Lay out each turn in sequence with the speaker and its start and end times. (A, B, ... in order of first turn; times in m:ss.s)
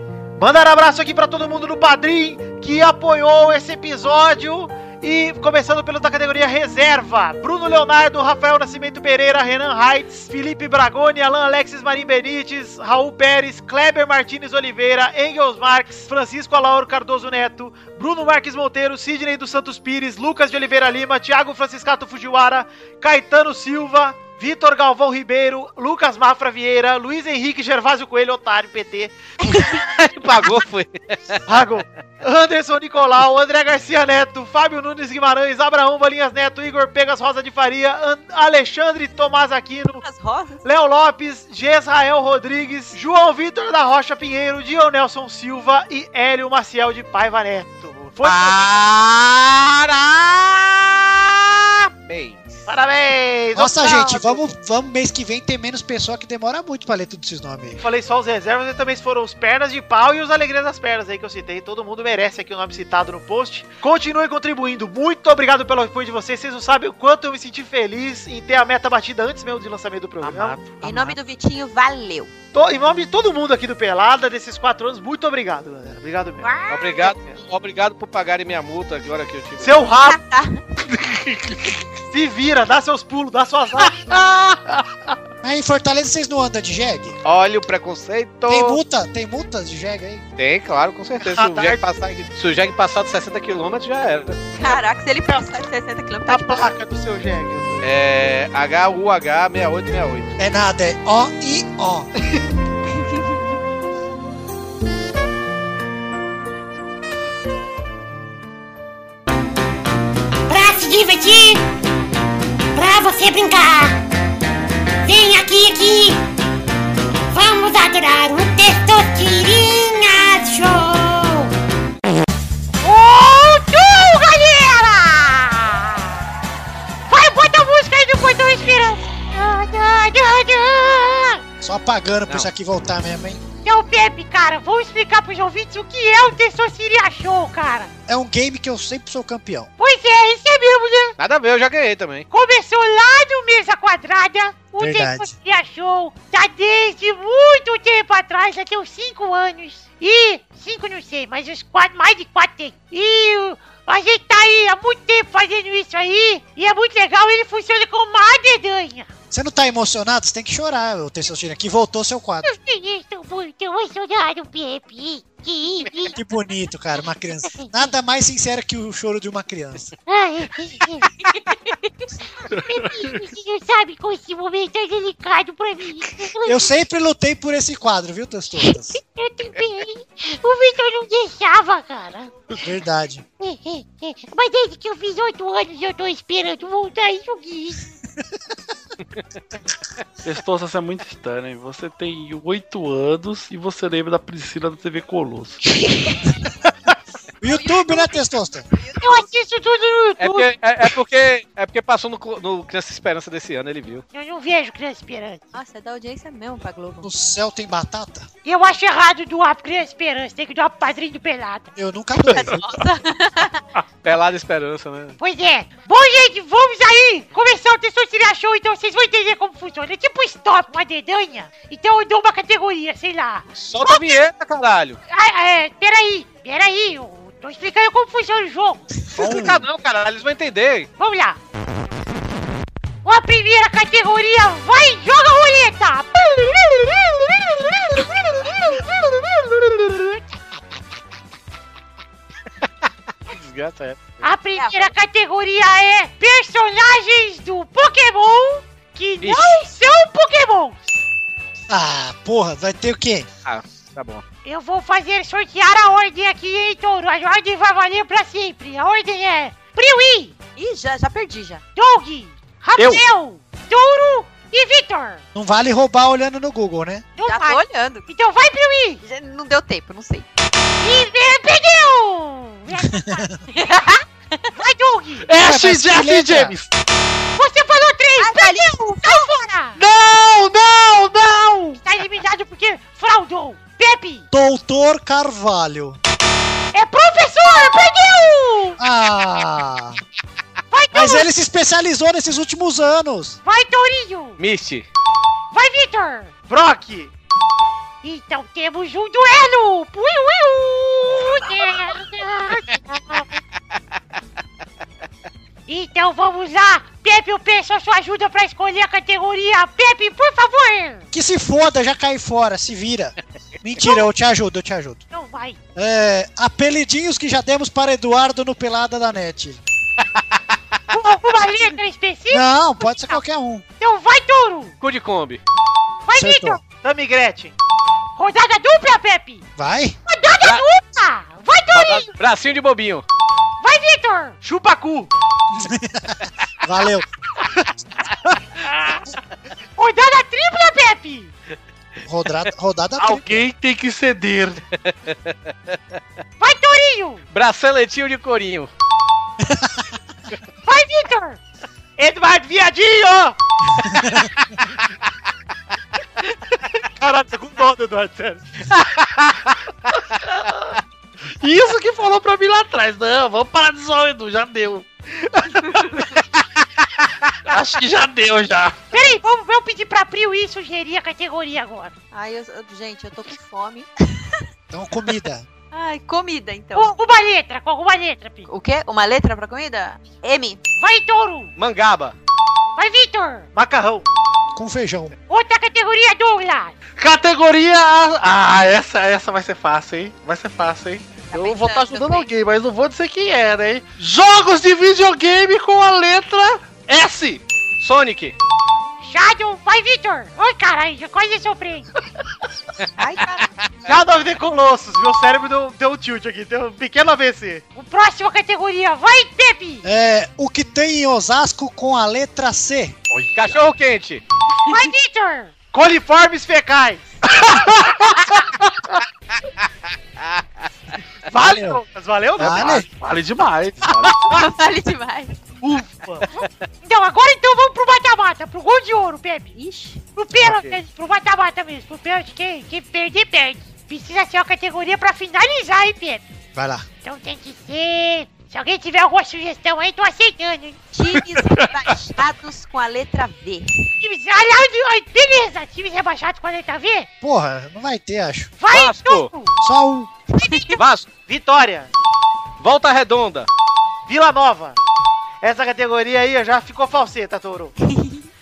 0:00.4-0:29.6 A
0:29.8-0:31.4 B
0:31.4-0:40.0 A
0:40.0-0:40.6 C
0:40.6-0:48.8 A
0:48.2-0:52.6 B
0:52.7-0:54.5 A
0:53.6-0:57.8 D
0:57.8-1:10.6 A
1:10.2-1:11.2 E
1:10.8-1:12.3 C
1:12.5-1:17.4 A
1:16.4-1:17.1 F
1:16.7-1:19.8 B
1:19.6-1:20.2 A
1:20.0-1:20.6 C
1:20.9-1:21.7 E
1:22.1-1:24.2 A
1:24.1-1:25.1 E
1:25.4-1:27.2 D
1:27.2-1:28.8 B
1:28.5-1:30.2 D
1:30.4-1:34.4 B
1:31.2-1:31.8 A
1:34.5-1:36.7 C
1:34.6-1:35.5 A
1:36.3-1:37.9 A
1:37.8-1:40.3 B
1:40.4-1:42.1 D
1:50.5-1:51.7 F
1:52.7-1:54.0 F
1:55.0-1:56.2 F
1:57.3-2:01.5 F
2:02.8-2:06.1 F
2:07.1-2:11.4 F
2:11.6-2:13.4 D
2:13.6-2:17.9 F
2:18.1-2:19.7 D
2:19.8-2:21.2 F
2:21.2-2:22.3 B
2:22.3-2:39.1 F
2:24.8-2:25.3 D
2:39.3-2:42.5 D
2:42.4-2:46.2 F
2:46.1-2:49.9 D
2:50.1-2:51.1 F
2:52.5-2:56.7 F
2:52.6-2:53.1 E
2:56.4-2:59.0 D
2:59.0-3:02.4 F
3:02.6-3:03.2 D
3:03.4-3:07.8 F
3:10.2-3:15.6 E
3:17.4-3:18.7 D
3:17.4-3:19.3 C
3:19.0-3:20.5 F
3:20.2-3:24.0 B
3:24.1-3:25.4 F
3:25.5-3:27.1 C
3:27.0-3:28.3 D
3:28.4-3:31.7 F
3:31.8-3:32.6 D
3:32.2-3:33.6 C
3:34.0-3:35.2 B
3:35.2-3:44.2 F
3:43.6-3:45.0 B
3:45.1-3:48.8 F
3:49.1-3:50.9 B
3:51.0-3:51.4 F
3:53.0-3:59.1 F
4:00.0-4:00.2 F
4:03.3-4:04.2 B
4:04.2-4:11.0 F
4:04.6-4:04.9 C
4:09.2-4:09.6 B
4:11.7-4:13.3 D
4:13.4-4:14.2 B
4:14.4-4:20.4 F
4:20.6-4:21.6 C
4:21.8-4:25.2 F
4:22.8-4:23.0 E
4:25.4-4:27.1 D
4:27.2-4:29.0 F
4:27.2-4:28.1 C
4:29.0-4:30.3 C
4:30.8-4:33.2 F
4:33.0-4:33.4 D
4:33.6-4:34.4 C
4:34.6-4:35.3 F
4:35.2-4:36.7 E
4:35.4-4:36.6 D
4:37.4-4:39.8 F
4:38.2-4:39.3 C
4:39.7-4:41.8 E
4:41.8-4:44.3 F
4:44.3-4:46.0 D
4:46.7-4:48.8 F
4:48.8-4:50.0 D
4:50.7-4:51.3 F
4:50.9-4:53.4 D
4:53.4-4:54.4 F
4:54.4-4:54.9 B
4:55.5-4:56.3 F
4:56.5-4:57.1 A
4:58.0-5:03.3 F
5:05.7-5:11.0 F
5:11.1-5:15.0 D
5:15.1-5:15.6 F
5:15.8-5:19.6 D
5:20.9-5:23.2 F
5:22.3-5:23.6 D
5:23.8-5:24.7 F
5:24.8-5:25.4 B
5:26.1-5:26.6 F
5:26.1-5:26.6 D
5:26.8-5:27.6 A
5:28.2-5:29.4 F
5:29.6-5:30.0 D
5:30.1-5:32.1 F
5:31.7-5:33.0 B
5:33.6-5:34.4 F
5:34.4-5:35.1 A
5:35.6-5:37.1 D
5:39.8-5:41.3 F
5:42.0-5:43.4 D
5:43.0-5:44.6 E
5:44.8-5:45.8 B
5:46.4-5:47.2 F
5:47.3-5:48.7 B
5:49.4-5:49.9 D
5:50.6-5:51.4 F
5:52.0-5:53.4 A
5:53.8-5:54.3 D
5:56.7-5:58.4 A
5:58.7-5:59.5 B
6:01.4-6:04.9 E
6:07.5-6:08.8 E
6:08.9-6:11.9 F
6:12.1-6:14.2 C
6:14.7-6:15.5 D
6:15.7-6:16.9 C
6:16.7-6:18.5 F
6:18.5-6:20.6 C
6:20.8-6:21.5 F
6:21.6-6:22.1 B
6:22.8-6:23.5 F
6:23.6-6:24.1 A
6:24.5-6:25.1 D
6:25.3-6:26.8 F
6:27.0-6:37.4 E
6:31.2-6:32.3 C
6:37.8-6:38.4 B
6:39.0-6:41.9 F
6:43.0-6:43.5 C
6:43.9-6:47.6 A
6:47.7-6:49.8 F
6:49.8-6:53.0 D
6:53.1-6:53.6 E
6:53.4-6:54.2 B
6:54.7-6:55.5 F
6:55.7-6:57.1 A
6:57.3-6:58.6 E
7:01.3-7:02.8 A
7:01.4-7:01.8 D
7:02.4-7:02.8 D
7:02.4-7:04.3 E
7:04.3-7:05.4 C
7:05.6-7:06.2 A
7:06.3-7:09.5 F
7:09.6-7:10.0 C
7:10.1-7:16.2 F
7:10.4-7:10.7 D
7:16.5-7:16.9 D
7:17.0-7:20.8 F
7:20.9-7:23.7 C
7:24.0-7:27.1 F
7:27.2-7:28.5 D
7:28.6-7:29.6 F
7:28.7-7:29.3 B
7:29.6-7:30.1 D
7:30.4-7:30.8 F
7:30.4-7:30.7 C
7:30.8-7:31.1 B
7:31.3-7:31.9 A
7:32.6-7:33.5 B
7:34.1-7:34.8 A
7:35.4-7:37.7 A